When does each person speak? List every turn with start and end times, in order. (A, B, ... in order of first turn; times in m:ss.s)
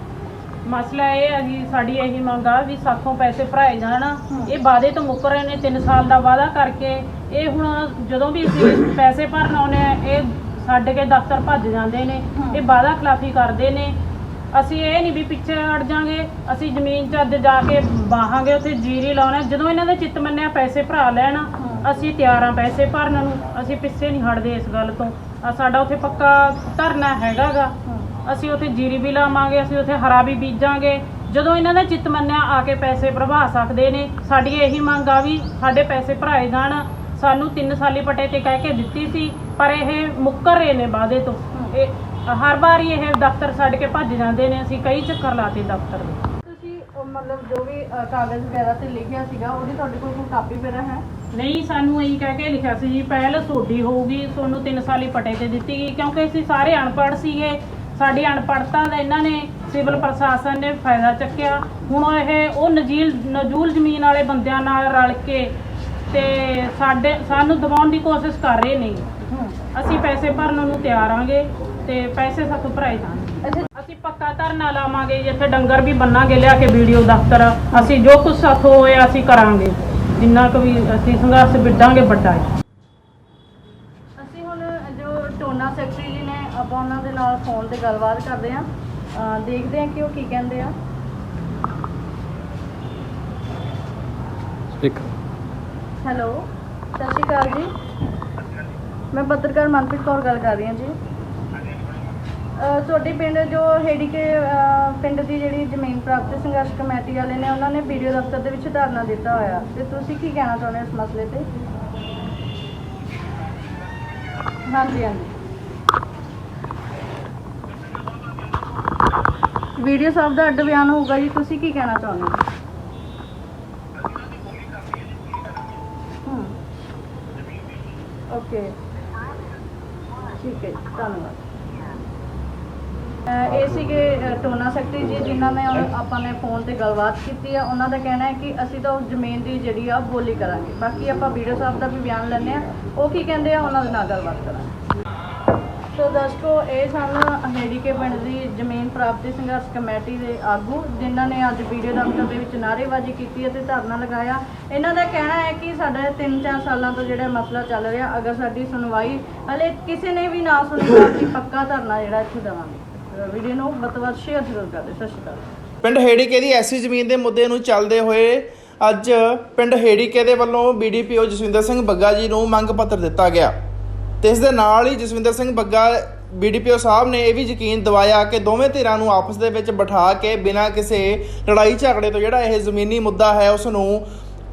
0:00.6-0:14.0 A
0:12.4-0:12.6 B
0:14.5-0:27.7 A
0:21.6-0:21.8 B
0:28.2-0:46.2 A
0:46.4-0:51.0 B
0:51.3-1:05.5 A
1:06.1-1:09.0 A
1:09.3-1:09.6 B
1:09.7-1:22.5 A
1:24.2-1:30.7 B
1:36.0-1:36.5 B
1:37.0-1:37.7 B
1:39.1-1:41.0 B
1:42.6-1:51.5 B
1:54.7-1:55.3 B
1:59.8-2:02.4 B
2:06.2-2:06.5 B
2:08.3-2:08.7 B
2:10.4-2:11.4 B
2:13.3-2:24.7 B
2:25.9-2:45.4 B
2:45.8-2:53.5 C
2:54.2-3:04.1 C